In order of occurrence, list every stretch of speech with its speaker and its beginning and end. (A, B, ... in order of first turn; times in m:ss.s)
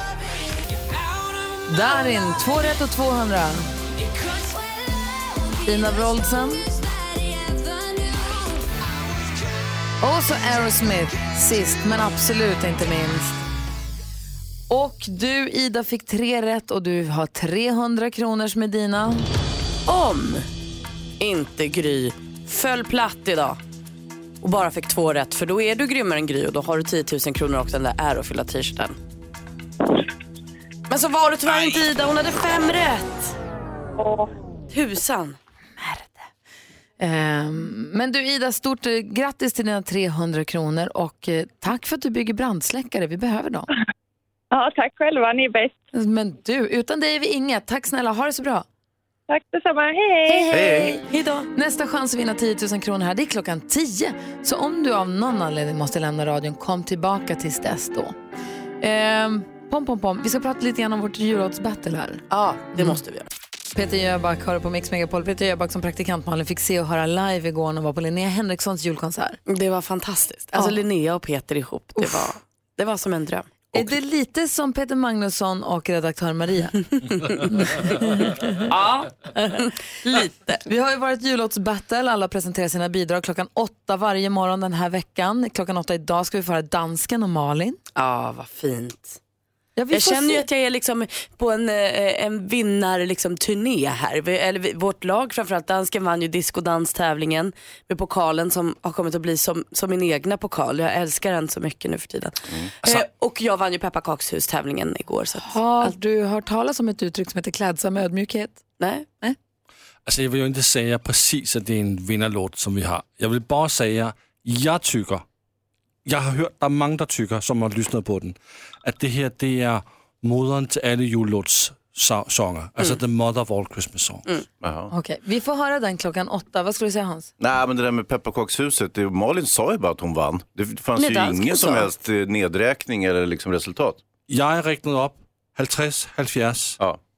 0:01.7-0:03.7 A
0:05.6-0:06.7 A
0:10.0-0:13.4 A
0:14.7-0:19.2 A
0:19.9-0:20.5 B
0:21.2-0:23.6 B
0:24.4-0:29.0 B
0:30.9-0:33.4 B
0:34.0-0:34.3 C
0:34.7-0:35.4 B
0:35.8-0:36.2 A
0:37.0-0:43.7 A
0:44.5-0:45.8 C
0:45.9-0:48.7 A
0:49.3-0:50.5 C
0:50.3-0:58.2 A
0:50.5-0:51.0 D
0:51.1-0:51.4 B
0:58.8-1:02.2 A
1:02.3-1:03.3 B
1:03.8-1:09.4 A
1:09.5-1:13.8 B
1:12.0-1:12.3 A
1:13.7-1:16.8 A
1:17.5-1:18.6 A
1:20.0-1:20.6 B
1:20.7-1:27.8 A
1:28.0-1:29.2 B
1:29.8-1:30.4 A
1:29.9-1:45.9 B
1:45.4-1:48.6 A
1:48.8-1:49.1 B
1:50.1-1:55.2 E
1:56.0-2:04.2 E
2:04.6-2:04.9 D
2:04.9-2:07.3 A
2:07.4-2:14.0 D
2:11.0-2:11.9 B
2:14.3-2:16.8 E